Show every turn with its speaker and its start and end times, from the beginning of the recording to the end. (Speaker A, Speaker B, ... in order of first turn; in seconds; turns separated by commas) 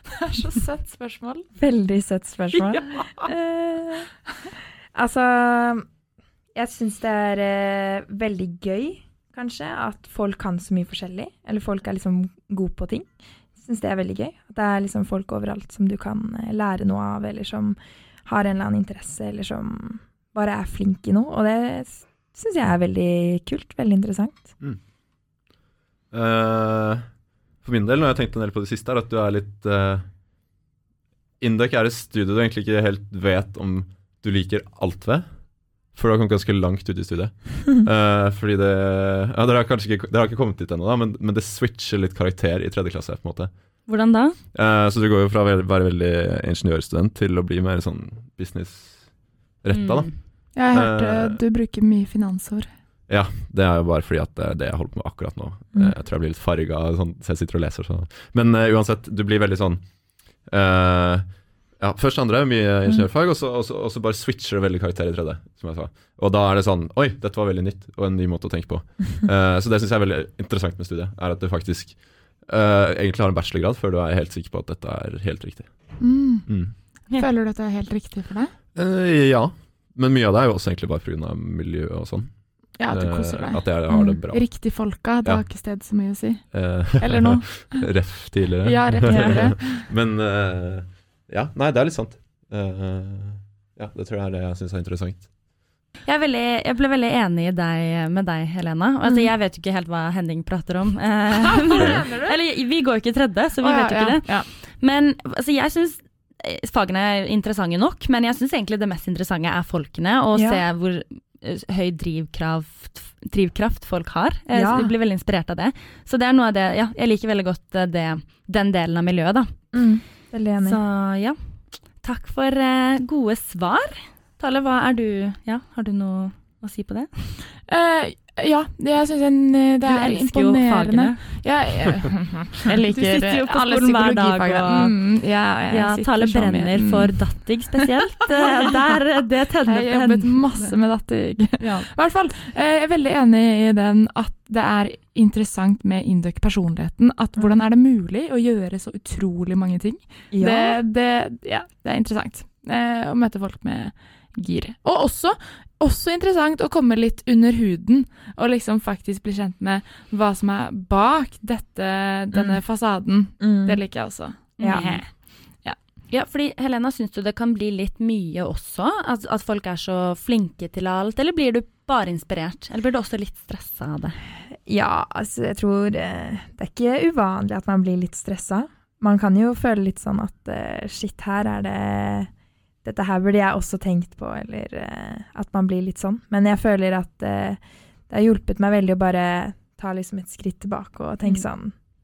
Speaker A: 0.2-1.5, Speaker B: 1.6-4.1, Speaker B: 4.9-5.8, Speaker B: 6.5-24.5, Speaker C: 26.1-27.0, Speaker C: 27.6-30.0, Speaker C: 31.4-35.2, Speaker C: 35.9-43.5, Speaker D: 43.9-44.4, Speaker C: 44.5-49.0, Speaker C: 49.6-50.1, Speaker D: 49.7-50.1, Speaker A: 50.5-52.7, Speaker C: 50.7-51.4, Speaker C: 53.1-59.8, Speaker C: 60.5-61.2, Speaker C: 61.8-75.7, Speaker A: 76.0-76.5, Speaker C: 76.5-76.7, Speaker A: 77.1-78.5, Speaker C: 78.7-82.3, Speaker A: 82.8-86.4, Speaker C: 82.9-84.5, Speaker C: 86.5-95.3, Speaker A: 87.0-87.8, Speaker A: 88.6-89.8, Speaker B: 89.0-89.4, Speaker D: 96.0-119.5, Speaker A: 101.3-102.4, Speaker A: 103.6-104.5, Speaker B: 110.3-110.6, Speaker B: 114.5-114.9, Speaker B: 119.7-120.8, Speaker D: 120.6-121.4, Speaker D: 122.0-127.1, Speaker A: 127.7-137.1, Speaker D: 129.8-131.2, Speaker D: 132.9-134.9, Speaker D: 135.7-140.7, Speaker A: 138.3-138.7, Speaker A: 139.7-165.1, Speaker D: 141.6-141.9, Speaker B: 150.3-150.8, Speaker B: 162.3-162.6, Speaker B: 163.4-163.8, Speaker D: 164.6-165.0, Speaker B: 164.6-164.9, Speaker D: 166.1-174.2, Speaker B: 174.7-182.3, Speaker B: 182.8-191.7